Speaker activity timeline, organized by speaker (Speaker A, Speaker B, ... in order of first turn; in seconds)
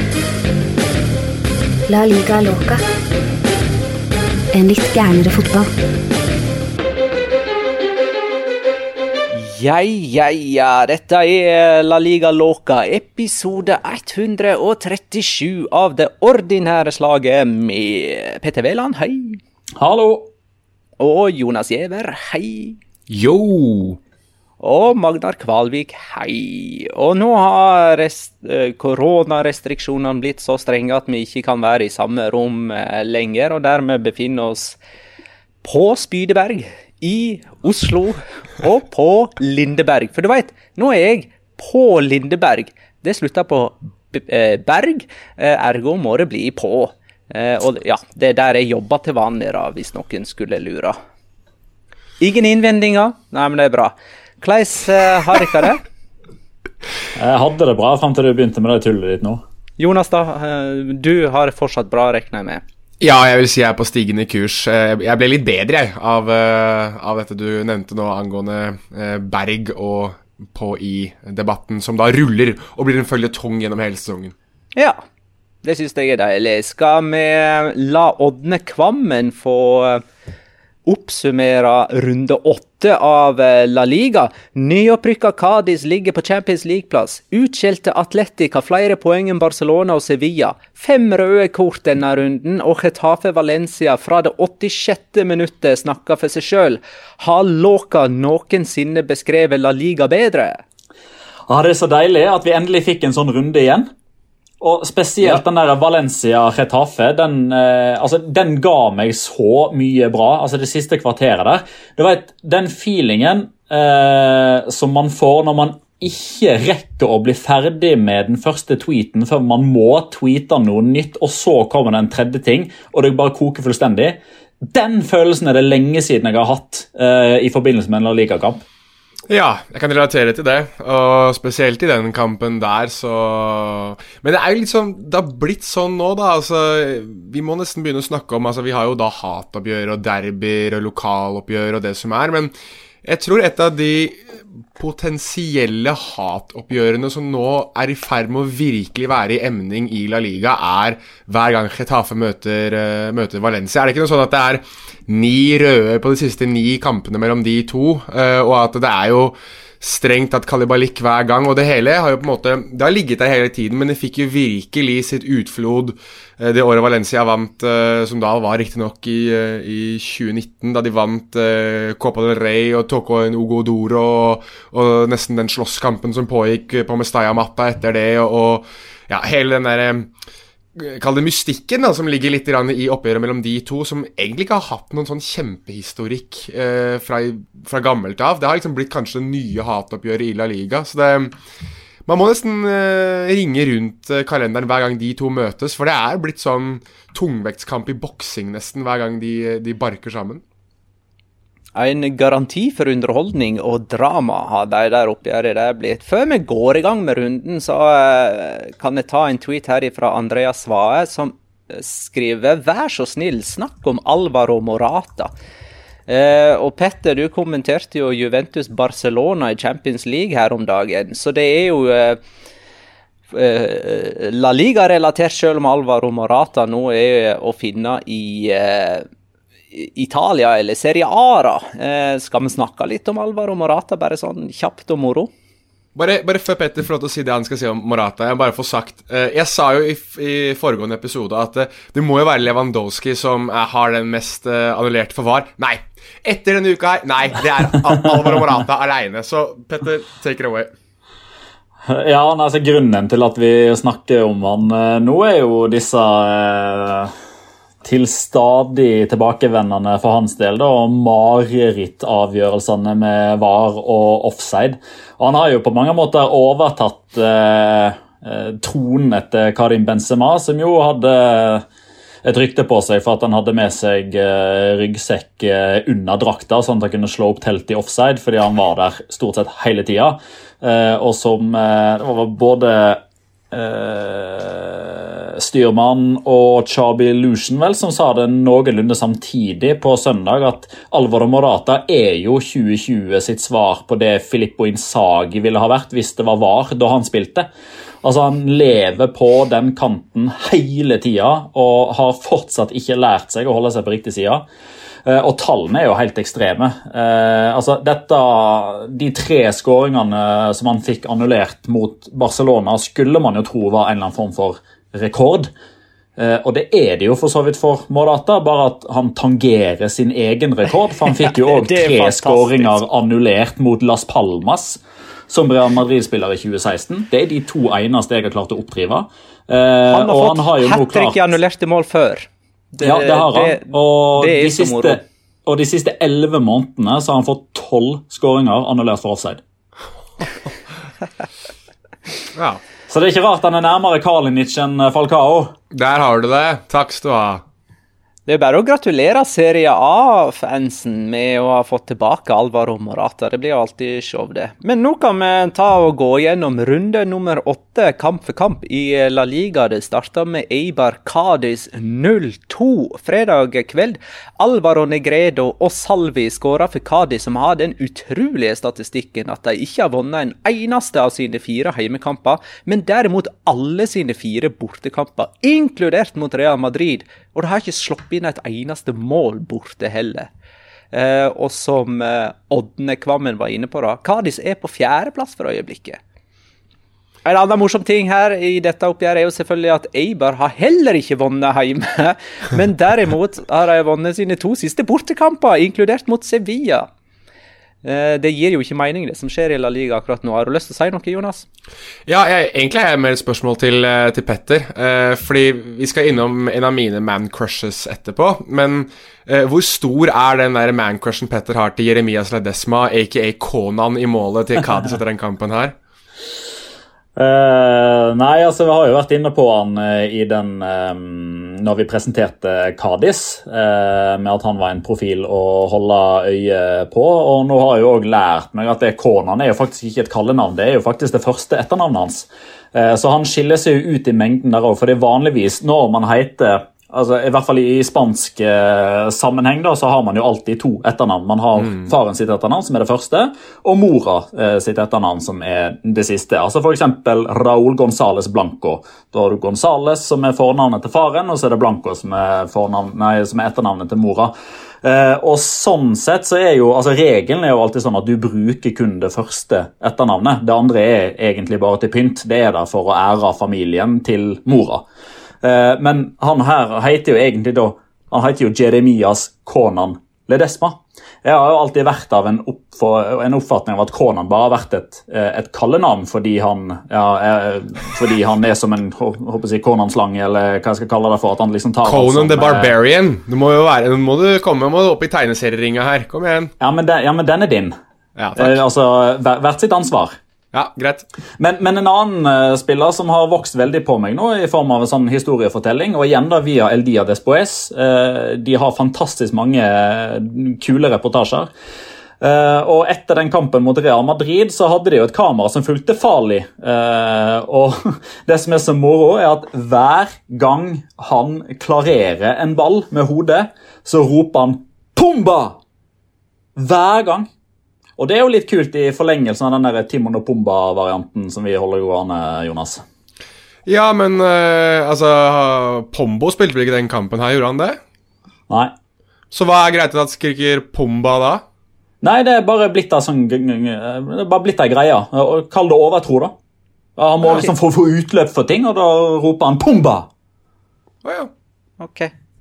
Speaker A: 1.9-2.8, 4.5-5.7
Speaker B: 9.3-19.4, 21.0-22.8, 24.6-34.8, 35.6-51.0, 52.2-55.8, 59.8-62.6, 75.6-80.0, 80.9-100.6, 201.8-215.3, 216.1-222.2, 223.3-229.1, 229.7-235.3, 321.3-322.8, 329.9-335.0, 348.3-380.3, 380.9-386.0, 387.2-396.9, 397.8-401.5, 541.8-542.1
Speaker C: 19.8-20.3, 57.1-59.4, 101.5-103.9, 104.6-128.7, 251.9-257.1, 257.8-271.7, 272.2-297.5, 298.0-304.4, 305.1-315.5, 316.2-331.4, 332.8-339.4, 342.9-345.6, 417.2-464.9, 465.4-482.7, 486.6-487.8, 488.4-490.2, 491.4-501.5, 502.2-515.6, 516.6-517.3, 518.0-522.8, 532.0-536.4, 537.0-540.1
Speaker D: 23.1-24.0, 63.0-74.3, 129.3-142.5, 143.0-180.1, 180.8-191.3, 192.1-200.4, 235.9-250.7, 342.4-342.6, 345.7-347.4, 402.1-415.8, 481.8-486.5, 488.2-488.6, 490.5-491.1, 523.7-527.8, 529.3-531.4, 541.0-541.3